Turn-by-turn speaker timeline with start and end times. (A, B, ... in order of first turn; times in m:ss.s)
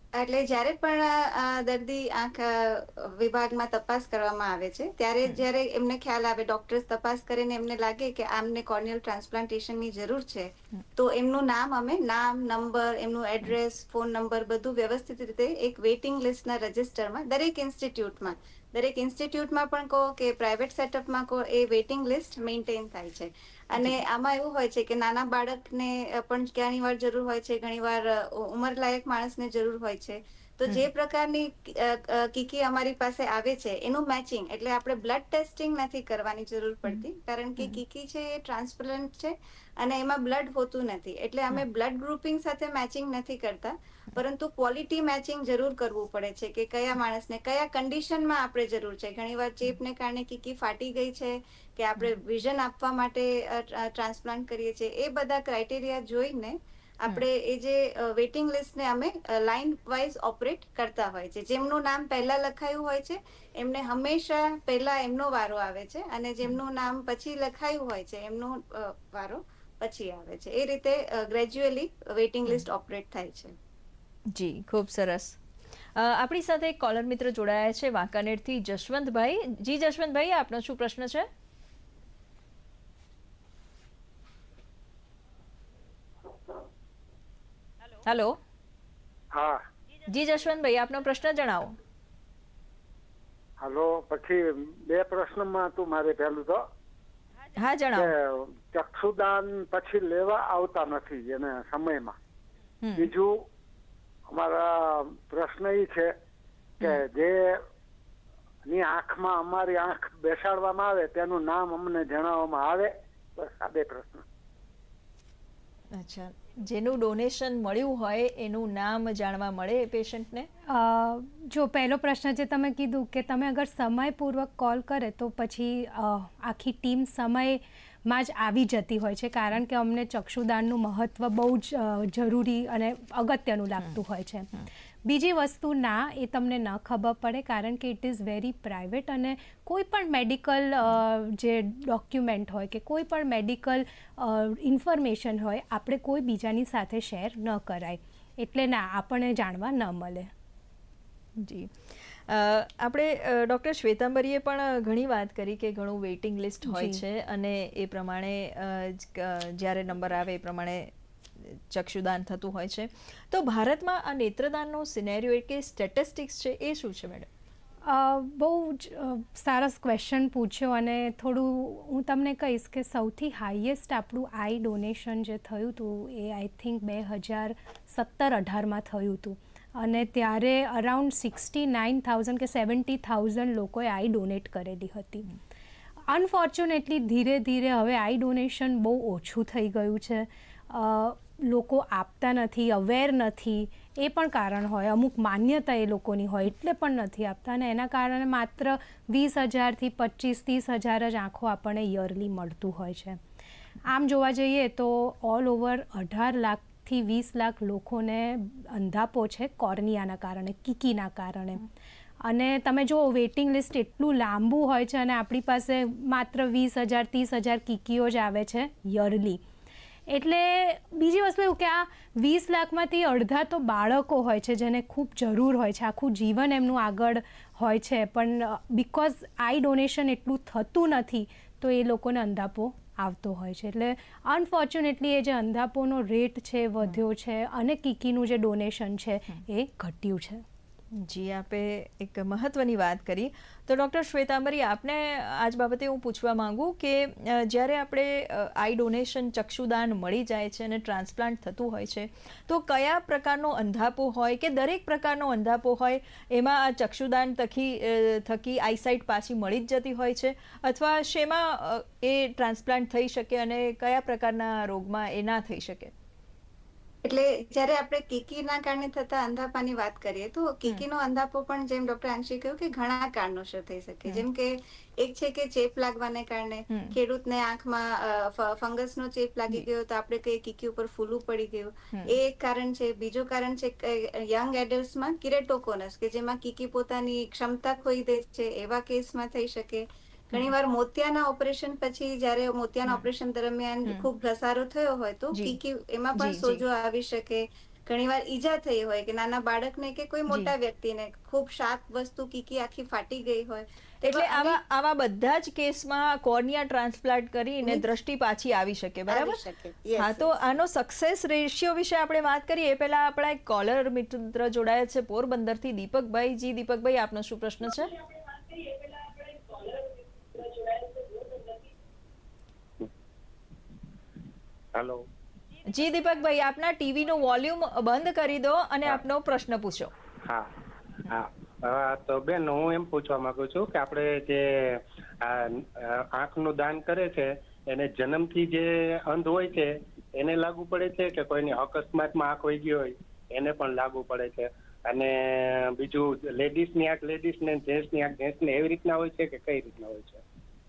0:00.2-1:13.5 A
1:14.3-1:15.4 B
1:15.9-1:21.3 B
1:28.0-1:28.4 B
1:29.3-1:29.6 C
1:30.0-1:31.8 B
1:33.6-1:36.6 C
1:37.5-1:38.1 B
1:37.9-1:42.1 C
1:42.8-1:43.1 B
1:43.0-1:43.4 C
1:44.3-1:46.1 C
1:46.8-1:47.6 C
1:48.7-1:54.2 C
1:55.9-2:00.5 B
2:00.7-2:14.5 D
2:15.0-2:30.3 D
2:31.4-2:47.3 B
2:36.7-2:37.0 D
2:47.8-3:05.3 D
3:06.1-3:23.2 D
3:23.8-3:31.6 D
3:32.2-3:39.4 D
3:40.1-4:00.4 D
4:00.9-4:25.9 B
4:27.0-5:04.6 A
4:36.7-4:37.0 B
4:55.3-4:55.6 B
4:56.2-4:56.6 B
5:04.0-5:09.4 B
5:07.6-5:07.9 A
5:09.1-5:10.4 A
5:10.0-5:17.9 B
5:20.4-5:20.6 E
5:24.7-5:25.0 E
5:25.6-5:29.9 B
5:31.0-5:50.2 E